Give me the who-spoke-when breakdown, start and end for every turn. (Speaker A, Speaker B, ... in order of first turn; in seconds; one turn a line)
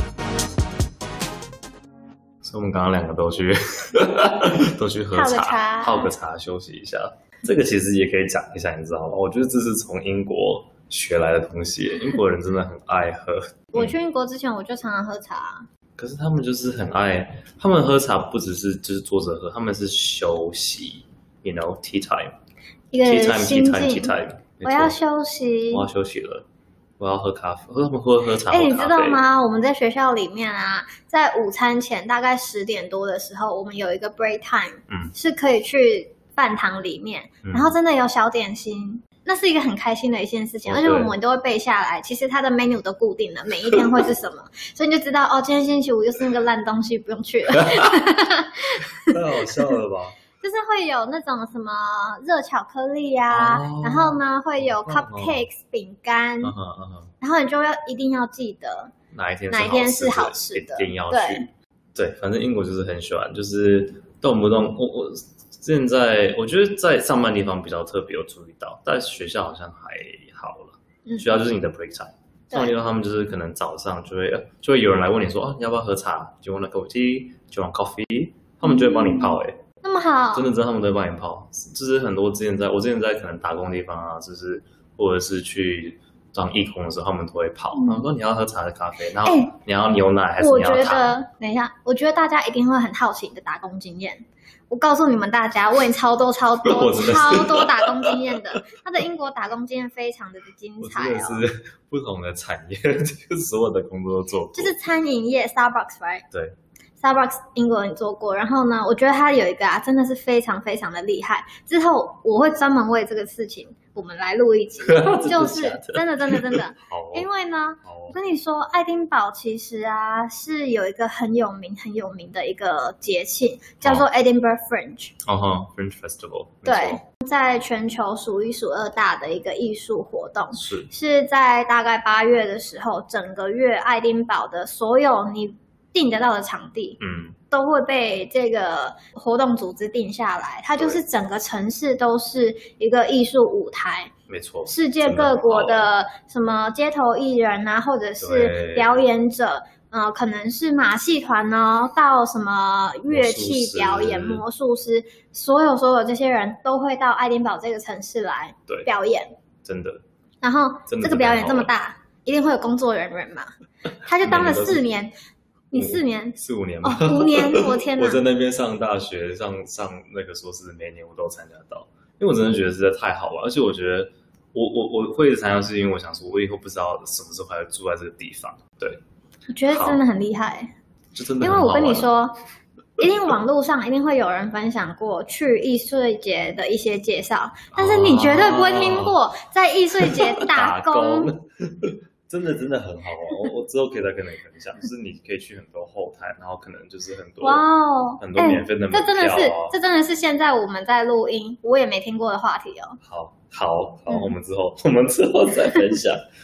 Speaker A: 2.4-14.0
Speaker B: 5.1-6.1
Speaker B: 13.7-15.7
Speaker A: 16.0-22.4
Speaker B: 22.9-25.9
Speaker A: 23.0-25.0
Speaker A: 25.7-26.5
Speaker A: 27.0-29.2
Speaker B: 28.5-49.5
Speaker A: 37.5-37.8
Speaker A: 40.6-41.1
Speaker A: 47.6-48.0
Speaker A: 49.0-50.2
Speaker B: 50.4-56.5
Speaker A: 53.3-55.5
Speaker A: 56.4-57.1
Speaker B: 57.2-58.9
Speaker A: 59.1-79.6
Speaker B: 59.5-61.4
Speaker B: 71.1-71.3
Speaker B: 78.6-80.5
Speaker A: 80.3-91.2
Speaker B: 87.8-88.0
Speaker B: 89.2-89.5
Speaker B: 90.4-101.4
Speaker A: 96.7-98.4
Speaker A: 100.8-104.8
Speaker B: 104.5-106.3
Speaker A: 106.3-106.6
Speaker B: 107.0-125.1
Speaker A: 114.8-117.3
Speaker A: 117.8-118.2
Speaker A: 125.2-127.0
Speaker B: 126.7-137.0
Speaker A: 130.5-130.9
Speaker A: 137.0-137.4
Speaker B: 137.5-144.1
Speaker A: 144.3-145.9
Speaker B: 144.7-159.3
Speaker A: 148.2-149.0
Speaker A: 153.1-154.4
Speaker A: 159.6-160.0
Speaker B: 160.4-165.1
Speaker A: 160.9-161.7
Speaker A: 164.2-164.9
Speaker B: 165.7-168.2
Speaker A: 165.7-179.0
Speaker B: 179.5-180.7
Speaker A: 179.7-180.0
Speaker A: 181.1-182.1
Speaker B: 181.4-182.4
Speaker B: 183.0-191.3
Speaker A: 187.7-189.2
Speaker A: 190.0-197.6
Speaker B: 197.4-203.0
Speaker A: 198.2-199.8
Speaker A: 203.0-206.2
Speaker B: 204.1-204.3